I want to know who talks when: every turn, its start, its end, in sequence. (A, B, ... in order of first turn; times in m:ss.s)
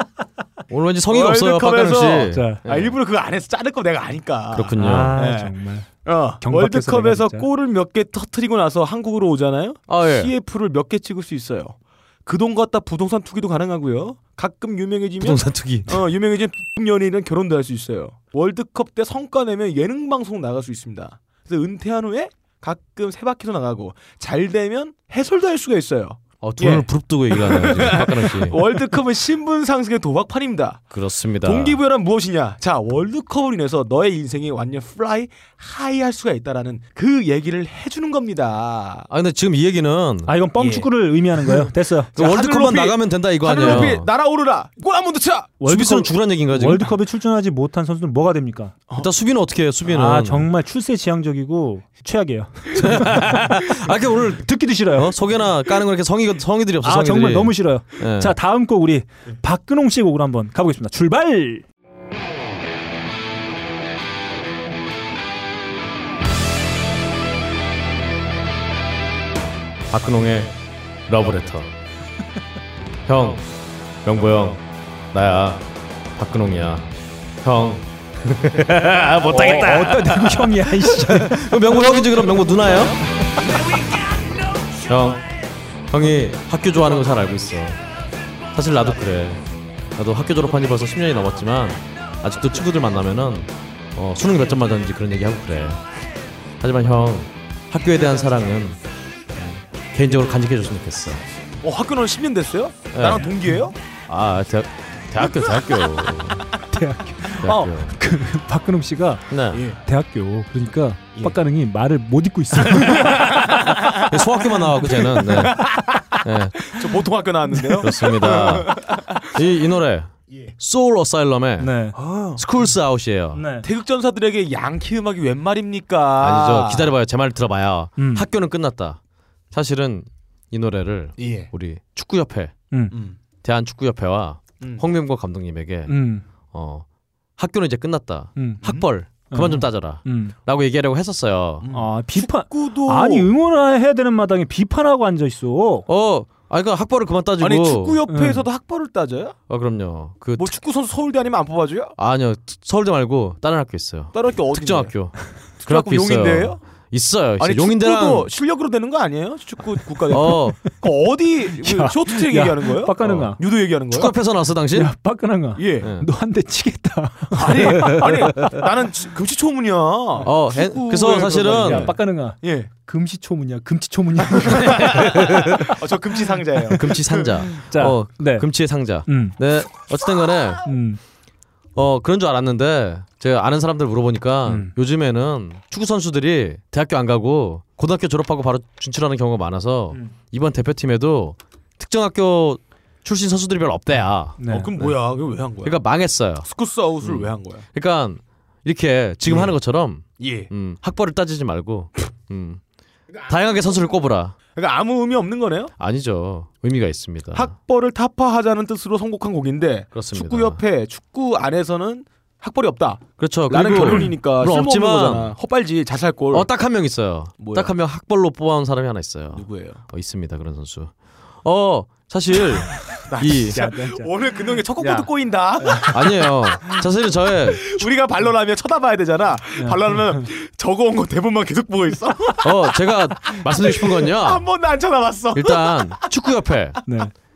0:00.7-0:02.9 A
0:01.1-0:30.9 B
0:02.3-0:02.6 C
0:04.5-0:05.2 A
0:04.8-0:07.5 C
0:09.9-0:10.3 A
0:15.2-0:16.0 A
0:26.4-0:28.7 A
0:30.9-0:31.8 A
0:31.4-0:39.1 B
0:39.1-0:40.3 A
0:40.2-0:42.1 C
0:40.6-0:45.6 B
0:42.2-0:44.1 A
0:45.6-0:48.8 C
0:45.6-0:46.9 A
0:49.0-0:50.5 A
0:49.9-0:53.5 C
0:52.8-0:58.3 A
0:54.4-0:55.2 C
0:56.8-1:01.6 C
1:09.9-1:10.5 A
1:11.1-1:11.7 A
1:13.1-1:13.4 A
1:14.0-1:15.6 A
1:16.2-1:23.0 A
1:19.3-1:21.5 C
1:24.8-1:25.2 A
1:25.9-1:27.8 A
1:28.5-1:29.4 A
1:29.9-1:35.8 A
1:36.6-1:38.8 A
1:39.3-1:41.2 A
1:41.6-1:43.7 B
1:42.9-1:43.3 A
1:44.1-1:46.4 A
1:46.7-1:49.2 C
1:47.4-1:47.9 A
1:49.3-1:49.6 A
1:49.5-1:49.8 B
1:49.8-1:53.6 C
1:52.7-1:59.2 B
1:53.9-1:55.6 A
1:56.2-1:56.8 A
1:57.8-2:01.7 A
2:01.6-2:02.0 C
2:02.0-2:02.4 B
2:02.3-2:03.4 A
2:03.3-2:03.6 C
2:03.6-2:06.9 B
2:06.2-2:09.0 A
2:08.0-2:08.3 C
2:09.5-2:12.5 A
2:11.2-2:11.5 B
2:12.9-2:13.2 B
2:13.4-2:16.0 A
2:15.9-2:16.2 C
2:16.5-2:16.8 A
2:17.4-2:21.6 A
2:18.4-2:20.3 C
2:21.6-2:23.3 B
2:21.7-2:25.9 C
2:25.9-2:28.0 A
2:27.4-2:29.4 B
2:28.1-2:28.4 C
2:29.5-2:30.6 A
2:30.4-2:31.9 B
2:32.0-2:38.3 A
2:34.1-2:36.6 B
2:37.4-2:44.1 B
2:40.1-2:40.6 A
2:41.5-2:43.4 C
2:43.0-2:43.3 A
2:43.9-2:44.9 A
2:44.7-2:48.5 C
2:45.6-2:45.9 B
2:45.8-2:46.1 A
2:47.3-2:52.7 B
2:47.8-2:48.1 A
2:50.2-2:51.9 A
2:51.6-2:55.7 C
2:54.4-2:57.4 B
2:54.7-2:55.5 A
2:56.7-3:00.6 A
2:57.6-2:58.5 C
2:59.0-2:59.4 C
3:00.6-3:01.0 C
3:01.8-3:15.0 A
3:04.5-3:04.7 C
3:14.4-3:14.7 C
3:14.5-3:15.8 B
3:15.6-3:16.5 A
3:16.4-3:17.6 B
3:17.0-3:22.6 A
3:19.2-3:19.5 B
3:20.2-3:20.5 B
3:23.2-3:24.4 A
3:24.5-3:25.7 B
3:25.8-3:27.5 A
3:27.3-3:36.5 B
3:29.9-3:30.6 A
3:33.2-3:35.3 A
3:33.8-3:34.1 C
3:36.3-3:43.6 A
3:37.4-3:37.7 B
3:39.3-3:39.8 B
3:43.1-3:46.8 B
3:43.5-3:44.1 C
3:44.8-3:45.1 C
3:45.6-3:45.9 C
3:45.9-3:47.8 A
3:47.5-3:56.0 B
3:52.4-3:54.4 A
3:55.3-3:56.8 A
3:56.8-3:57.1 C